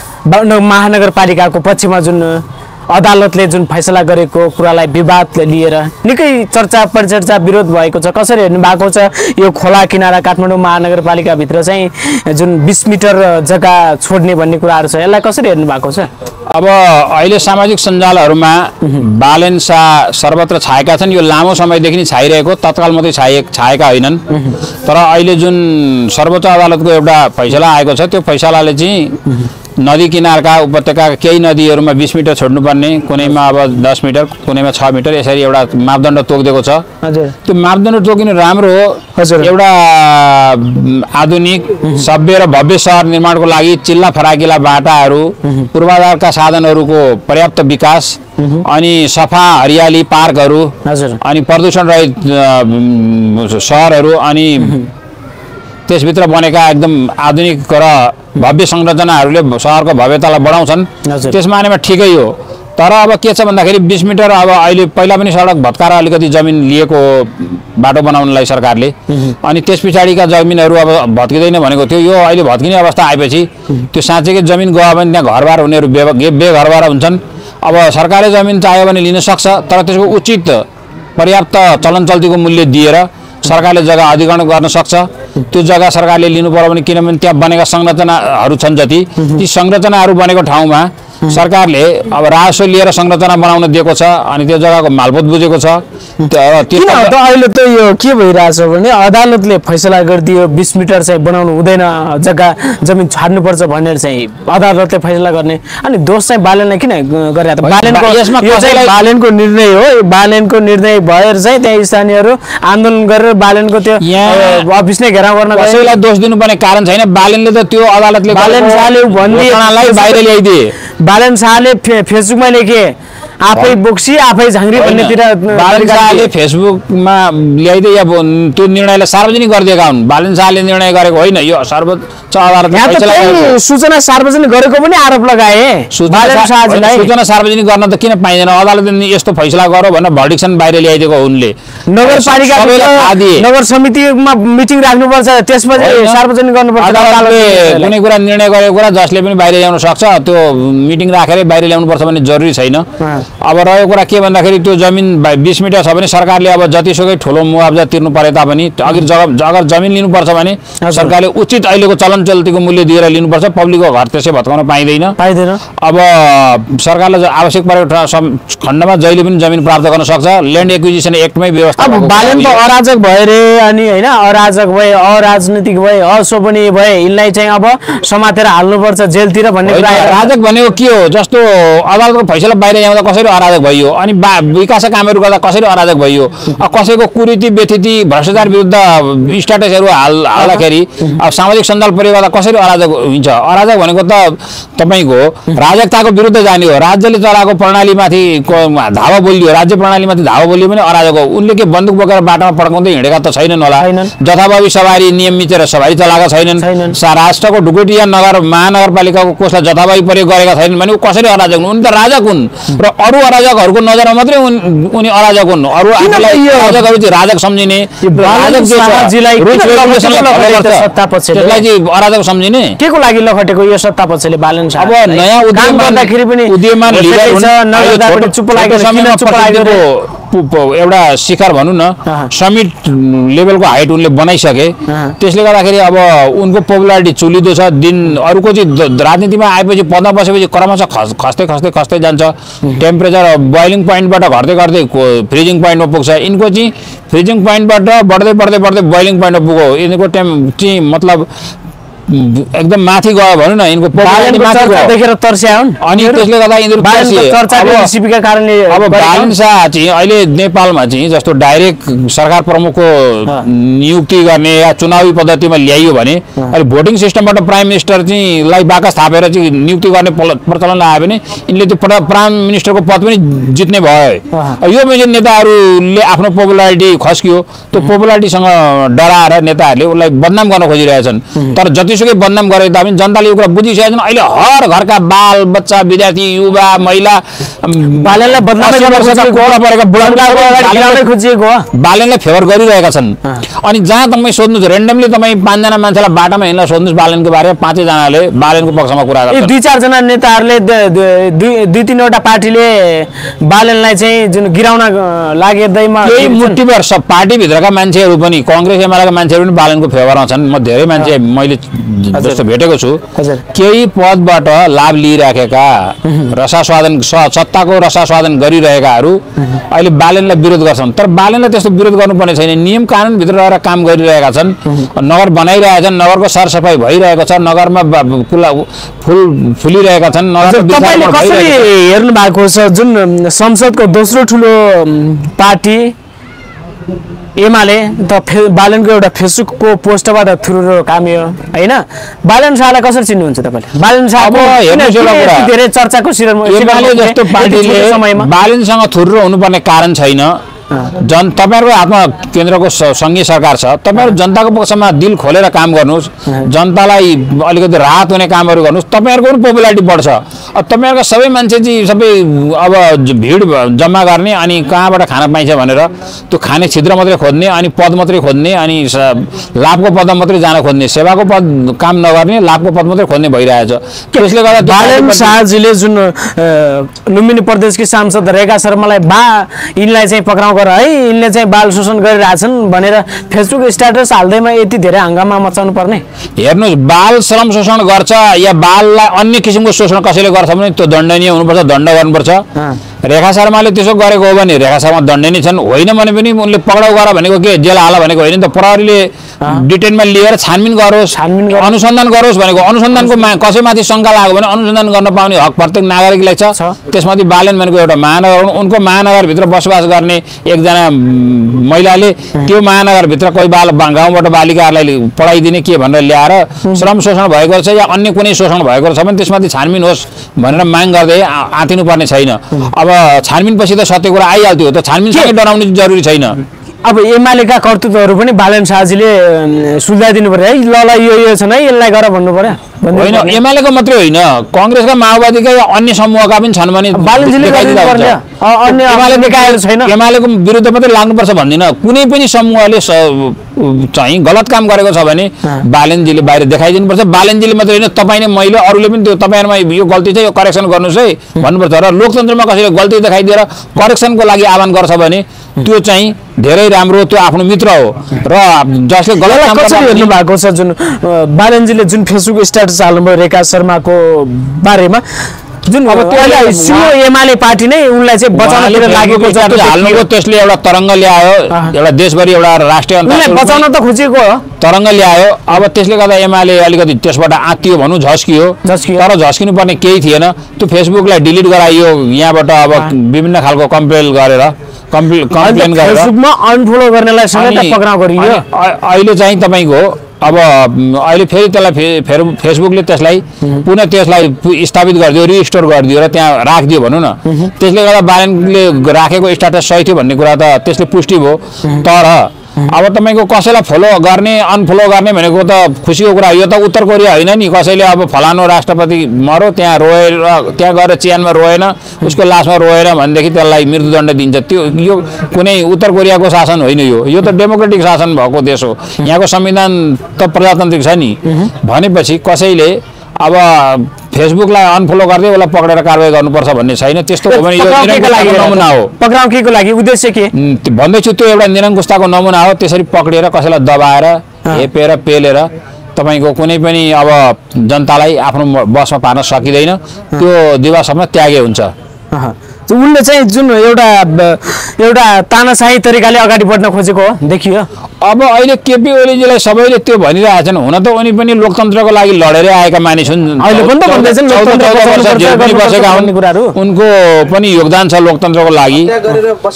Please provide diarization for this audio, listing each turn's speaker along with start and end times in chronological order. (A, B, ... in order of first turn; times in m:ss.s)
0:00.2-0:16.1 A
0:16.5-0:24.2 B
0:24.3-0:24.6 A
0:24.8-0:29.2 B
0:29.8-0:36.8 B
0:37.0-0:37.3 A
0:37.4-0:50.7 B
0:39.2-0:39.5 A
0:48.4-0:48.6 A
0:50.8-0:51.2 A
0:51.2-0:54.8 B
0:55.9-1:20.6 B
1:01.0-1:01.4 A
1:21.2-1:37.1 B
1:36.7-1:55.8 A
1:47.6-1:48.9 B
1:54.0-1:54.6 B
1:55.5-2:00.7 B
1:58.3-2:00.2 A
2:01.0-2:02.9 A
2:03.4-2:06.3 A
2:04.7-2:13.5 B
2:12.7-2:17.1 A
2:15.9-2:23.4 B
2:21.9-2:27.9 A
2:25.8-2:26.2 B
2:26.8-2:32.8 B
2:33.0-2:33.2 A
2:33.4-2:45.2 B
2:40.8-2:41.1 A
2:45.2-2:45.6 A
2:45.8-2:52.6 B
2:51.8-3:00.3 A
2:59.6-3:42.8 B
3:23.8-3:24.1 A
3:26.6-3:27.0 A
3:36.0-3:36.8 A
3:38.0-3:41.6 A
3:42.8-3:49.8 A
3:44.8-4:11.3 B
3:52.0-3:52.3 A
3:54.9-3:55.1 A
4:12.1-4:14.9 B
4:14.0-4:16.2 A
4:15.8-4:17.9 B
4:16.8-4:19.3 A
4:18.7-4:51.0 B
4:34.3-4:34.6 A
4:48.0-4:51.7 A
4:51.7-4:59.5 B
4:59.3-5:06.6 A
5:06.0-5:13.0 B
5:12.1-5:12.4 A
5:13.2-5:13.4 A
5:13.5-5:31.7 B
5:16.1-5:16.3 A
5:30.4-5:35.9 A
5:37.4-5:48.3 A
5:44.2-5:45.5 B
5:46.4-5:50.3 B
5:51.0-6:15.4 B
6:14.6-6:26.0 A
6:26.4-6:32.4 B
6:33.0-7:06.4 B
6:41.1-6:41.7 A
7:06.8-7:13.4 A
7:12.9-7:40.1 B
7:16.9-7:19.9 A
7:39.2-7:45.0 A
7:45.6-7:50.0 A
7:45.8-7:46.9 B
7:48.3-7:53.6 B
7:53.0-7:54.4 A
7:54.6-8:06.1 B
7:58.6-7:59.0 A
8:05.4-8:08.4 A
8:07.3-8:48.9 B
8:47.2-8:50.3 A
8:50.3-9:01.7 B
9:02.1-9:07.7 A
9:08.0-9:19.1 B
9:13.4-9:16.6 A